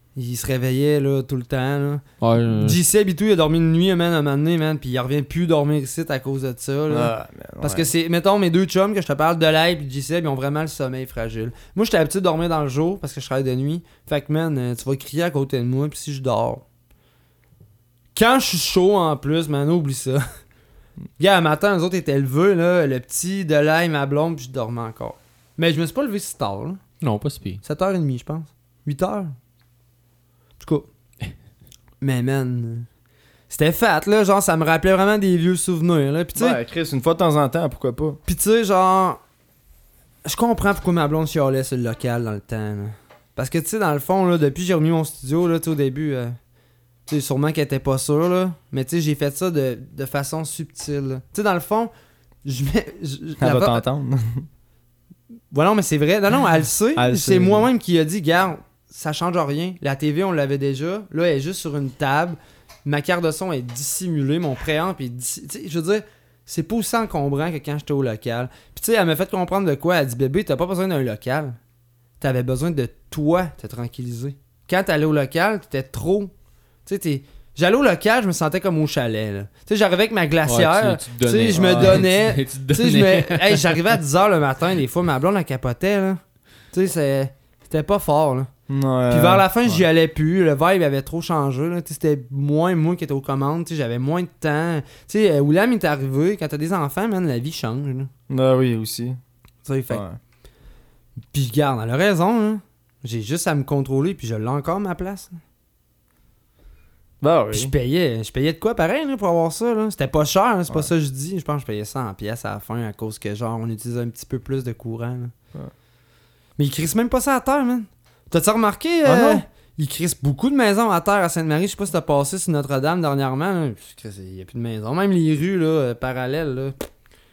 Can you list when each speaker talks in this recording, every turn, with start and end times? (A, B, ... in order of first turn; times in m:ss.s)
0:00.2-0:16.6 A
0:02.2-0:02.8 B
0:06.9-0:07.9 C
0:18.1-0:20.2 A
0:21.2-0:26.8 A
0:27.0-0:27.6 B
0:27.6-0:29.3 A
0:30.6-0:30.9 A
0:32.0-0:32.9 A
0:33.5-0:36.6 A
0:36.3-0:38.2 C
0:38.3-0:39.2 A
0:40.2-0:46.4 A
0:47.1-0:51.9 A
0:52.4-0:53.8 A
0:53.4-0:54.4 C
0:55.5-1:11.6 A
0:57.0-0:57.7 C
1:12.2-1:16.3 A
1:16.8-1:26.2 A
1:20.4-1:24.0 B
1:21.5-1:22.0 C
1:26.7-1:28.5 A
1:28.7-1:29.8 C
1:29.1-1:38.1 A
1:38.3-1:39.2 C
1:39.6-1:40.0 A
1:39.9-1:40.2 C
1:41.3-1:45.4 A
1:47.2-1:47.7 C
1:47.5-1:55.3 A
1:56.6-2:06.7 A
1:59.0-1:59.4 C